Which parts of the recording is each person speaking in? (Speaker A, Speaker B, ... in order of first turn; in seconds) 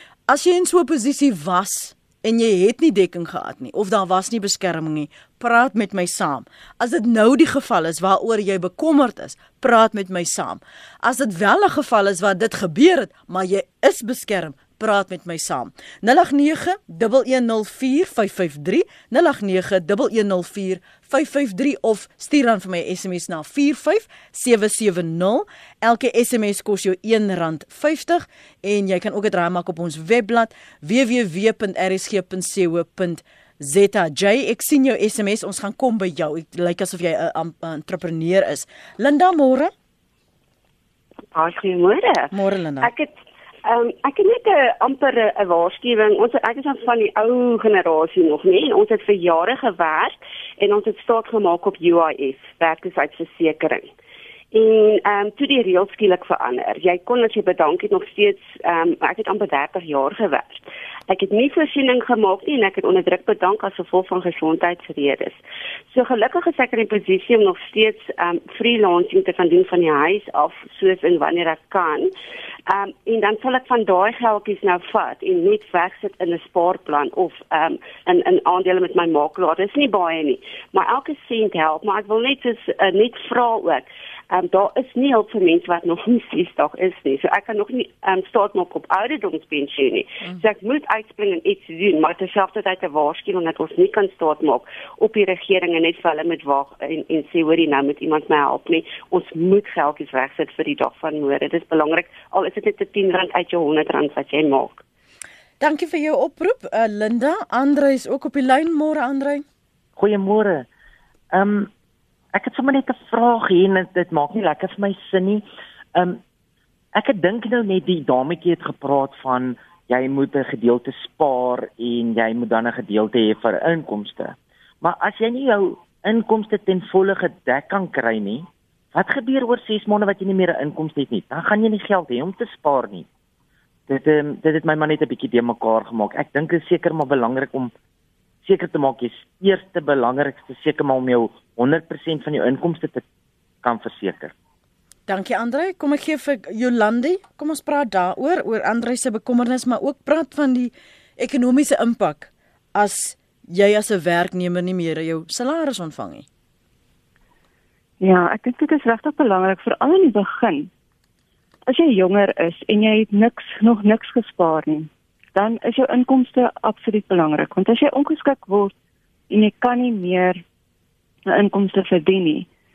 Speaker A: 0.3-39.7, 42.3-42.9, 105.6-109.4, 145.1-156.3
Speaker B: 41.3-43.1, 43.6-53.9, 54.5-72.1, 72.7-104.8
Speaker C: 110.0-110.7, 111.3-111.7, 112.3-116.2, 116.9-133.1, 133.9-137.7, 138.4-143.0, 143.6-144.3
Speaker D: 158.0-160.7, 161.7-168.7, 169.3-170.4, 171.3-172.5